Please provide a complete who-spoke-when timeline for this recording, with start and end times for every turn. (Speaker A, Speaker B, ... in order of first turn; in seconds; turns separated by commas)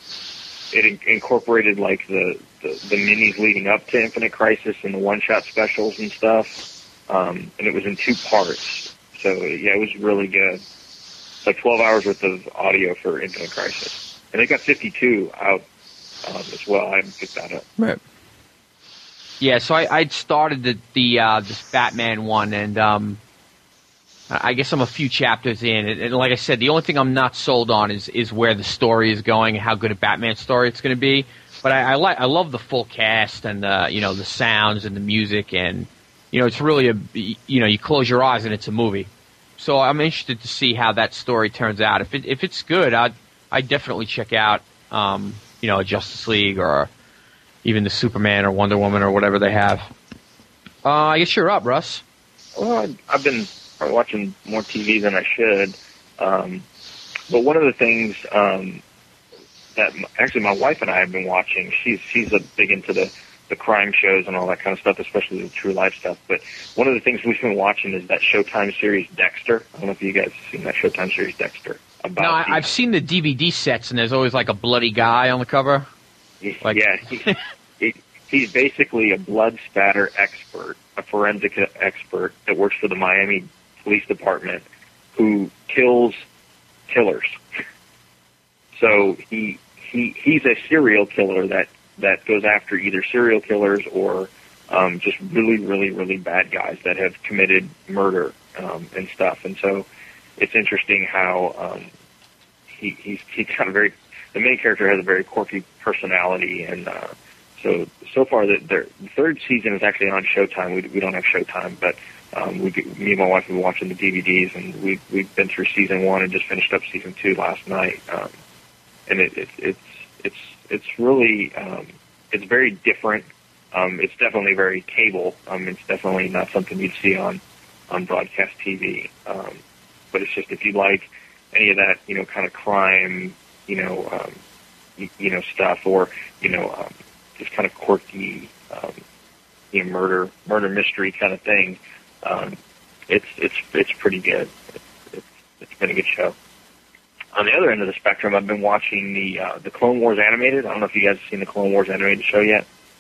Speaker A: 0.7-10.6, Speaker A: 11.4-15.6, Speaker A: 16.2-17.6, Speaker B: 19.4-23.2, Speaker B: 24.3-46.9, Speaker B: 47.6-49.9, Speaker B: 50.8-52.0, Speaker A: 52.6-56.6, Speaker A: 57.3-58.8, Speaker A: 59.8-72.7, Speaker B: 72.2-75.9, Speaker A: 76.4-84.6, Speaker B: 76.6-77.4, Speaker A: 85.2-86.2, Speaker A: 86.9-87.4, Speaker A: 88.8-99.9, Speaker A: 100.4-101.9, Speaker A: 102.8-118.3, Speaker A: 119.1-129.6, Speaker A: 130.1-134.4, Speaker A: 135.0-139.0, Speaker A: 139.7-142.6, Speaker A: 143.1-146.3, Speaker A: 147.3-152.6